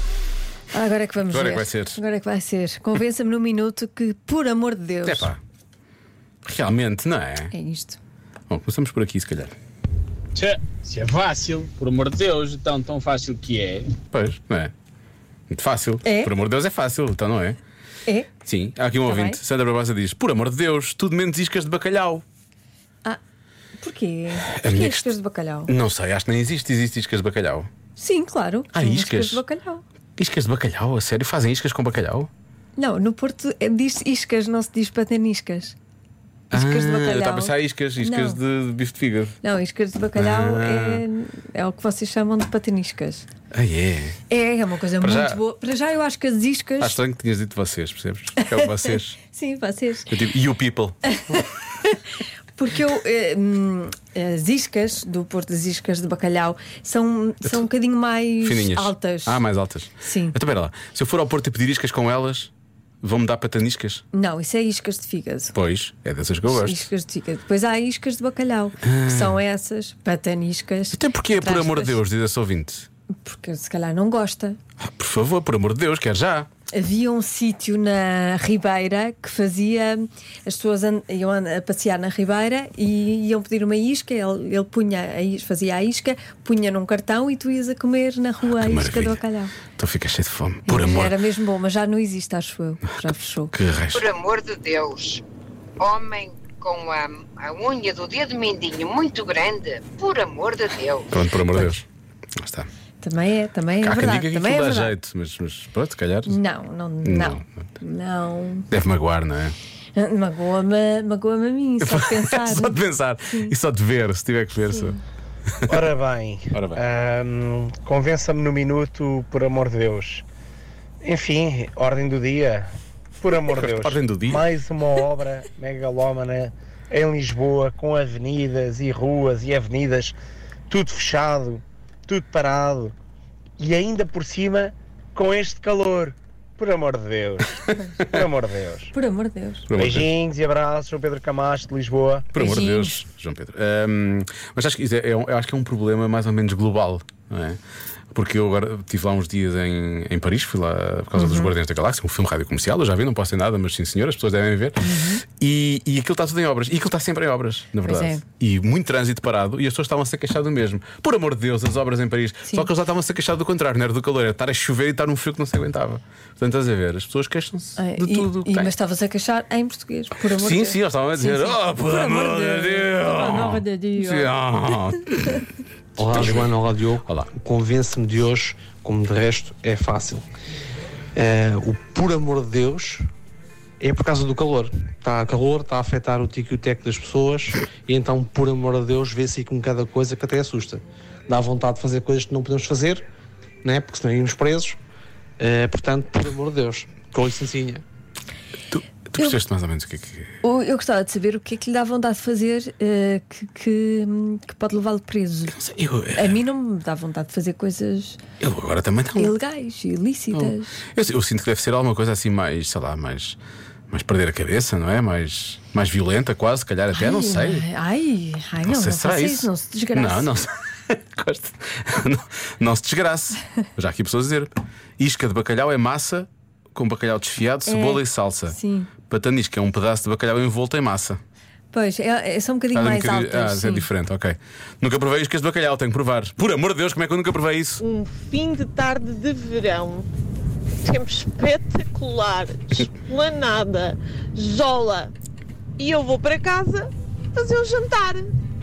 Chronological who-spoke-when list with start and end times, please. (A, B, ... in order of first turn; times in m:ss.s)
0:00.7-0:05.3 A
0:01.3-0:02.0 B
0:05.0-0:05.4 B
0:06.5-0:07.5 B
0:07.5-0:08.0 A
0:08.5-0:09.5 B
0:10.4-0:13.9 C
0:14.1-0:14.7 B
0:15.5-0:17.6 B
0:16.0-0:16.3 A
0:18.4-0:22.2 B
0:19.0-0:19.4 A
0:23.8-0:25.7 A
0:24.4-0:25.2 B
0:25.7-0:27.7 B
0:28.0-0:29.8 A
0:28.7-0:29.4 B
0:30.2-0:32.3 B
0:32.8-0:35.7 A
0:36.5-0:38.4 A
0:36.5-0:39.4 B
0:39.4-0:43.2 A
0:40.2-0:41.0 B
0:43.5-0:44.2 B
0:44.3-0:47.0 A
0:45.0-0:45.4 B
0:46.8-0:49.2 B
0:48.4-0:50.1 A
0:50.1-0:51.4 B
0:51.1-0:51.4 A
0:52.5-0:59.4 A
0:58.4-1:02.5 B
1:00.0-1:00.4 A
1:03.0-1:04.0 B
1:04.1-1:05.6 A
1:05.5-1:06.8 B
1:06.4-1:12.0 A
1:08.8-1:09.4 B
1:10.9-1:12.9 B
1:13.2-1:14.6 A
1:14.8-1:16.5 B
1:16.7-1:29.6 A
1:28.4-1:29.2 B
1:29.8-1:31.2 B
1:30.7-1:33.5 A
1:33.5-1:34.0 B
1:33.9-1:35.2 D
1:35.8-1:41.1 D
1:41.1-1:41.8 B
1:42.4-1:42.7 B
1:43.0-1:44.9 A
1:43.8-1:46.4 B
1:46.3-1:48.7 A
1:47.0-1:47.4 B
1:48.7-1:49.6 B
1:49.9-1:53.5 A
1:51.8-1:55.0 B
1:54.7-1:55.0 A
1:55.7-2:00.2 E
1:56.5-1:56.8 B
2:01.0-2:02.7 E
2:03.2-2:10.1 E
2:03.5-2:04.4 B
2:10.7-2:12.9 E
2:13.6-2:18.9 E
2:18.9-2:19.7 A
2:19.7-2:20.1 B
2:19.7-2:22.3 E
2:22.3-2:27.6 B
2:22.4-2:23.0 A
2:28.1-2:34.8 B
2:31.2-2:31.5 A
2:34.8-2:35.2 A
2:35.4-2:48.7 B
2:37.8-2:38.2 A
2:47.8-2:54.3 A
2:50.2-2:56.5 B
2:56.0-3:00.2 F
2:57.0-2:57.3 B
3:01.2-3:03.0 F
3:03.8-3:13.0 F
3:13.6-3:14.8 F
3:15.4-3:17.8 F
3:18.7-3:20.3 B
3:20.4-3:25.6 A
3:25.5-3:26.4 B
3:26.1-3:28.2 A
3:28.4-3:29.3 B
3:29.2-3:30.8 A
3:30.3-3:33.4 B
3:33.9-3:37.6 B
3:36.9-3:40.3 A
3:38.6-3:48.6 B
3:47.6-3:48.9 A
3:49.1-3:51.2 B
3:51.7-3:53.9 A
3:52.7-3:57.8 B
3:57.8-4:00.1 G
4:00.8-4:05.1 G
4:05.8-4:08.3 G